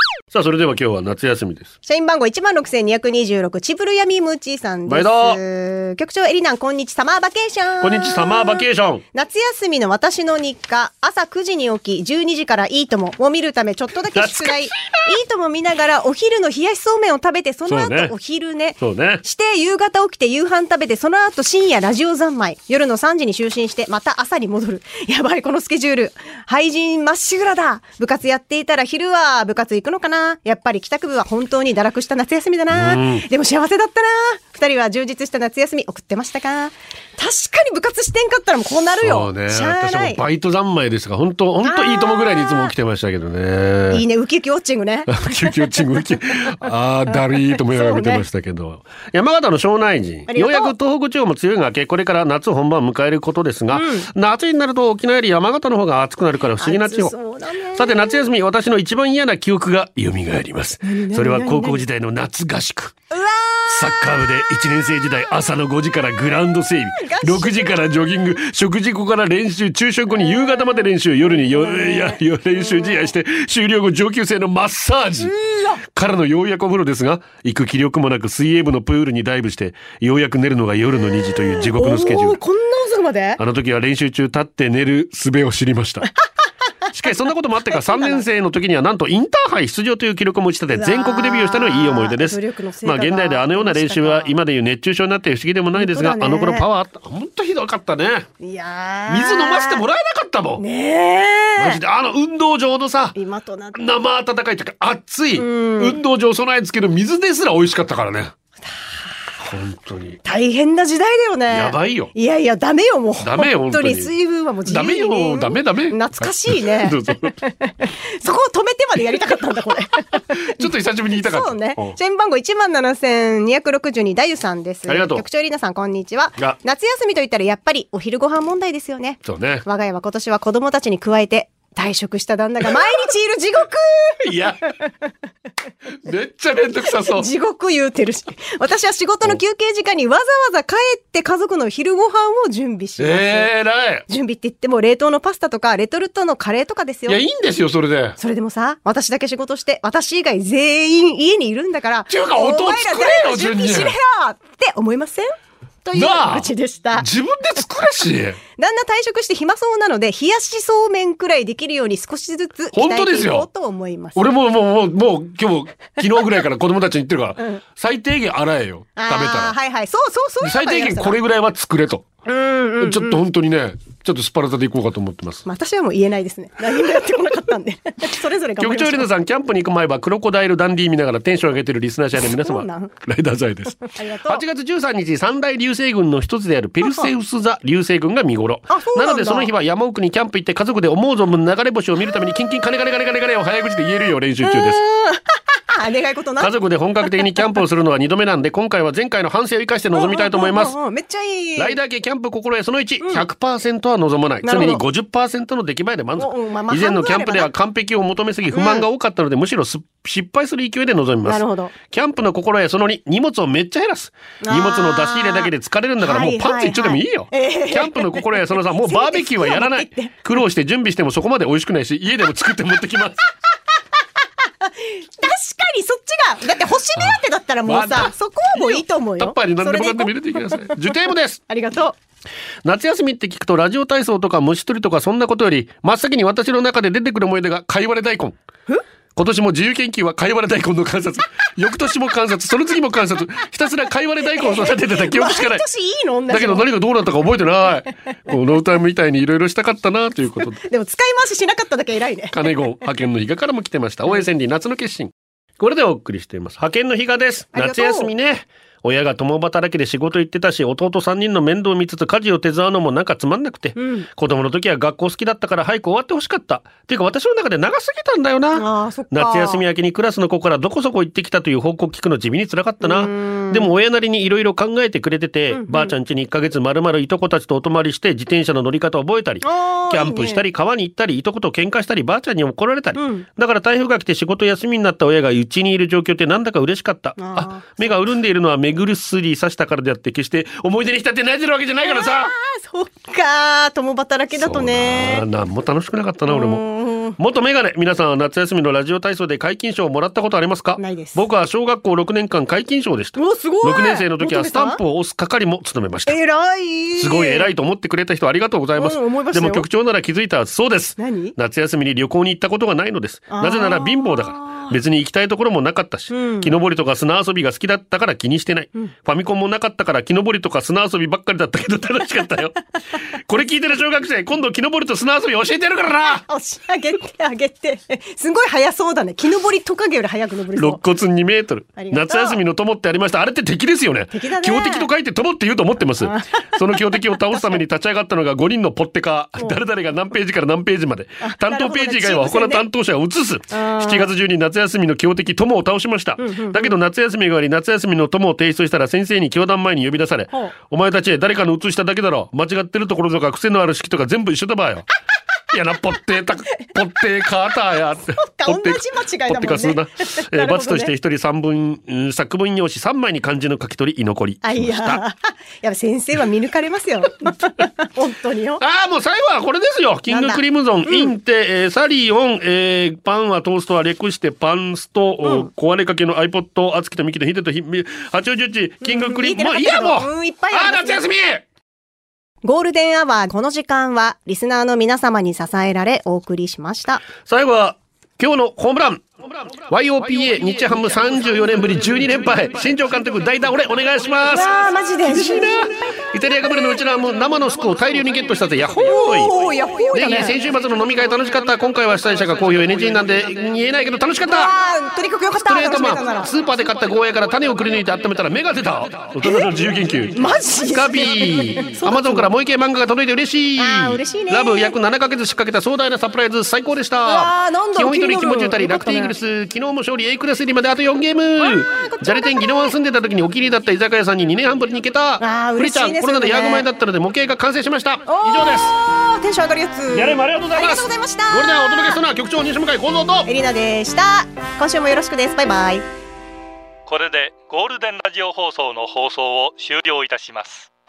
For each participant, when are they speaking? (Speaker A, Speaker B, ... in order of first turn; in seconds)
Speaker A: 0.3-1.7, 4.9-5.4, 7.8-9.0, 14.1-14.7, 17.7-18.1, 18.8-19.2, 32.7-33.3, 39.0-44.0, 45.1-57.1, 57.7-63.0, 63.7-75.3, 75.8-82.4, 83.4-86.1, 86.9-98.3, 99.1-100.6, 101.6-103.2, 103.7-108.3, 109.4-110.2, 111.5-112.1, 113.2-114.1, 114.7-117.4, 120.1-122.0, 124.8-125.2, 129.2-129.6, 134.2-134.7, 136.0-137.3, 143.0-144.0, 147.1-148.2, 152.1-153.9, 155.9-158.4, 162.7-163.5, 164.2-169.5, 170.4-172.0, 172.8-175.4, 178.6-194.8, 196.4-200.7, 201.6-223.2, 226.9-231.4, 232.6-238.4, 239.1-245.6, 246.3-250.6, 252.3-292.3, 294.3-306.2, 307.0-326.2, 330.5-354.8, 355.5-365.0, 368.6-381.4, 387.2-404.5, 405.4-428.7, 429.9-433.3
Speaker B: 1.9-40.2, 41.6-42.7, 43.9-46.0, 47.5-48.2, 50.3-50.7, 53.7-54.1, 56.6-58.2, 60.8-61.8, 63.1-64.4, 66.9-68.1, 70.4-73.0, 75.2-75.8, 81.6-83.4, 87.7-88.2, 90.7-94.3, 95.7-96.7, 98.4-99.8, 100.6-101.8, 103.1-103.8, 105.3-106.0, 110.2-134.9, 137.0-143.5, 144.1-147.2, 148.2-155.3, 155.8-157.1, 158.6-164.3, 169.0-171.2, 172.2-173.2, 175.4-179.1, 182.3-182.9, 183.8-184.4, 188.7-189.5, 194.4-196.5, 199.9-201.8, 203.0-203.2, 204.4-204.8, 206.2-207.5, 208.5-208.9, 211.2-211.7, 214.4-220.2, 224.6-230.9, 231.5-231.9, 244.4-246.7, 250.6-252.5, 257.5-258.1, 263.8-264.1, 268.5-269.6, 272.8-273.7, 275.5-275.9, 279.4-280.4, 282.9-283.2, 287.2-287.9, 291.8-295.2, 296.3-297.2, 300.8-301.2, 303.1-304.8, 306.1-307.5, 308.8-309.7, 311.0-311.3, 313.3-314.8, 316.1-316.5, 326.2-330.8, 331.8-332.4, 334.1-334.9, 336.0-337.4, 341.2-342.6, 343.5-344.1, 346.2-346.8, 358.2-360.9, 364.4-368.6, 370.1-371.1, 375.2-375.5, 378.8-381.0, 382.4-387.0, 394.3-395.7, 398.8-400.4, 404.2-406.3, 409.2-409.5, 410.1-412.3, 413.6-414.7, 417.0-419.1, 421.4-422.7, 425.2-426.7, 428.1-432.0, 433.2-435.8
Speaker C: 436.9-440.7